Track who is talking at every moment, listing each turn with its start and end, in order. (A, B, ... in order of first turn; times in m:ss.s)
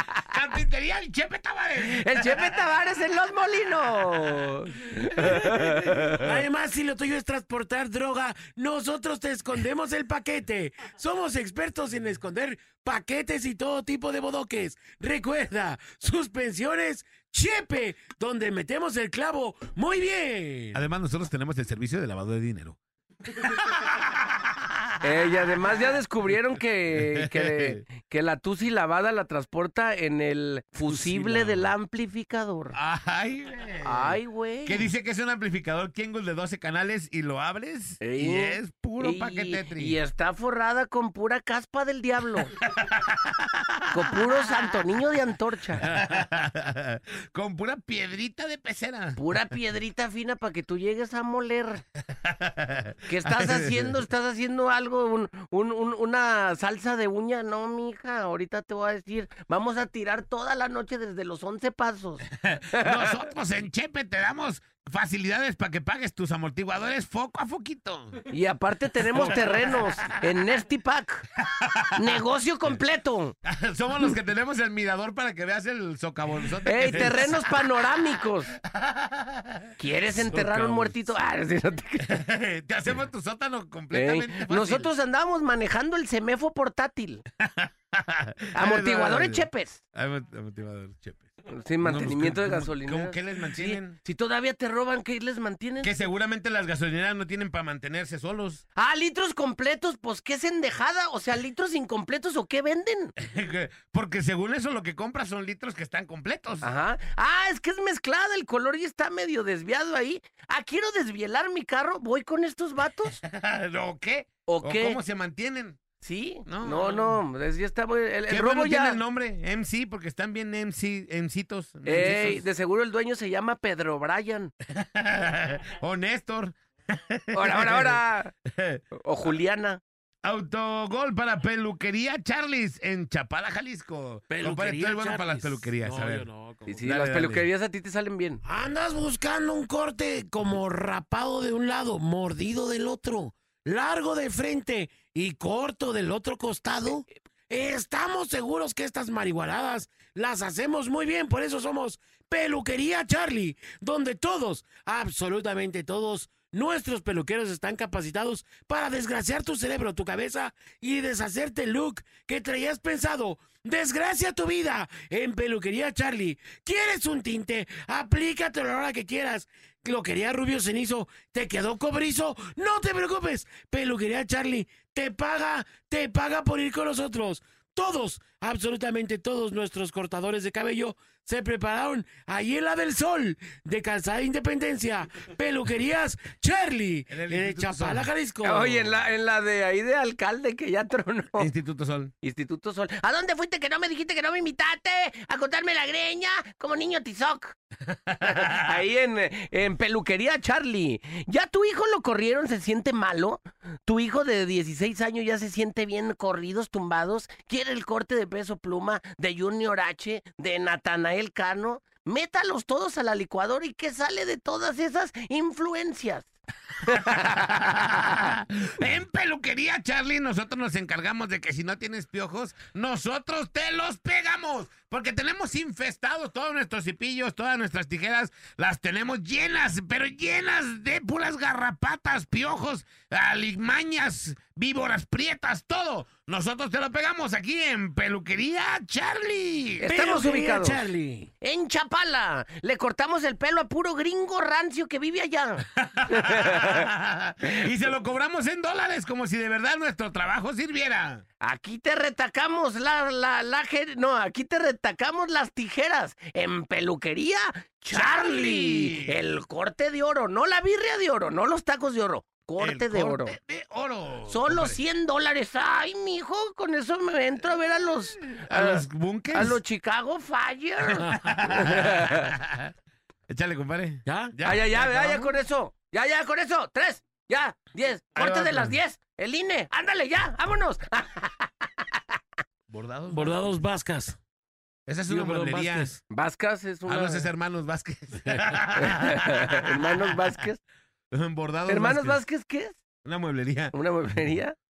0:00.3-0:02.6 A
0:01.8-0:06.2 B
0:06.2-0:20.8 C
0:20.7-0:22.8 A
0:23.4-0:25.1 A
0:25.0-0:32.8 B
0:27.0-0:27.8 A
0:30.9-0:31.7 C
0:32.7-0:40.0 A
0:33.8-0:34.9 B
0:38.0-0:42.5 B
0:42.6-0:44.8 A
0:43.9-0:45.9 B
0:45.8-0:49.3 A
0:49.2-0:51.8 B
0:52.2-0:54.0 A
0:53.1-1:03.1 B
1:02.5-1:08.2 A
1:08.3-1:11.2 B
1:09.1-1:10.2 A
1:11.5-1:12.2 A
1:12.0-1:13.3 B
1:13.4-1:19.8 A
1:16.6-1:18.6 B
1:19.8-1:22.2 B
1:20.3-1:21.1 C
1:22.0-1:24.9 A
1:23.9-1:27.2 B
1:27.4-1:31.3 A
1:28.6-1:29.8 B
1:31.5-1:35.9 B
1:31.8-1:34.0 A
1:35.8-1:38.6 A
1:38.8-1:43.1 B
1:43.2-1:46.7 A
1:46.6-1:53.2 B
1:53.2-1:55.8 A
1:54.5-1:55.0 B
1:56.0-1:59.0 B
1:56.5-1:57.2 A
1:58.3-2:02.4 A
2:01.8-2:04.5 B
2:04.7-2:08.8 A
2:07.3-2:08.3 B
2:08.9-2:09.8 B
2:10.2-2:16.3 A
2:14.3-2:16.8 C
2:16.7-2:18.4 B
2:16.8-2:17.5 A
2:18.4-3:08.9 C
3:07.1-3:08.1 A
3:08.4-3:11.5 B
3:11.4-3:12.1 A
3:12.2-3:17.6 B
3:18.1-3:18.7 A
3:18.2-3:36.3 B
3:36.9-3:59.9 A
3:59.8-4:00.9 B
3:59.8-4:01.3 C
4:01.4-4:06.8 B
4:05.8-4:11.2 A
4:11.4-4:23.4 B
4:17.9-4:19.2 A
4:22.6-4:24.8 A
4:24.3-4:31.1 B
4:28.5-4:29.6 A
4:31.0-4:32.7 A
4:31.7-4:32.2 B
4:33.3-4:35.3 A
4:34.1-4:34.4 C
4:34.4-4:42.0 B
4:38.2-4:38.8 A
4:42.7-4:43.3 A
4:43.1-4:44.2 C
4:44.9-4:46.0 A
4:45.1-4:46.0 C
4:46.1-4:47.3 B
4:46.9-4:50.3 A
4:48.8-4:50.6 B
4:51.1-4:52.2 A
4:51.7-4:52.8 B
4:53.0-4:53.8 A
4:53.7-4:54.6 B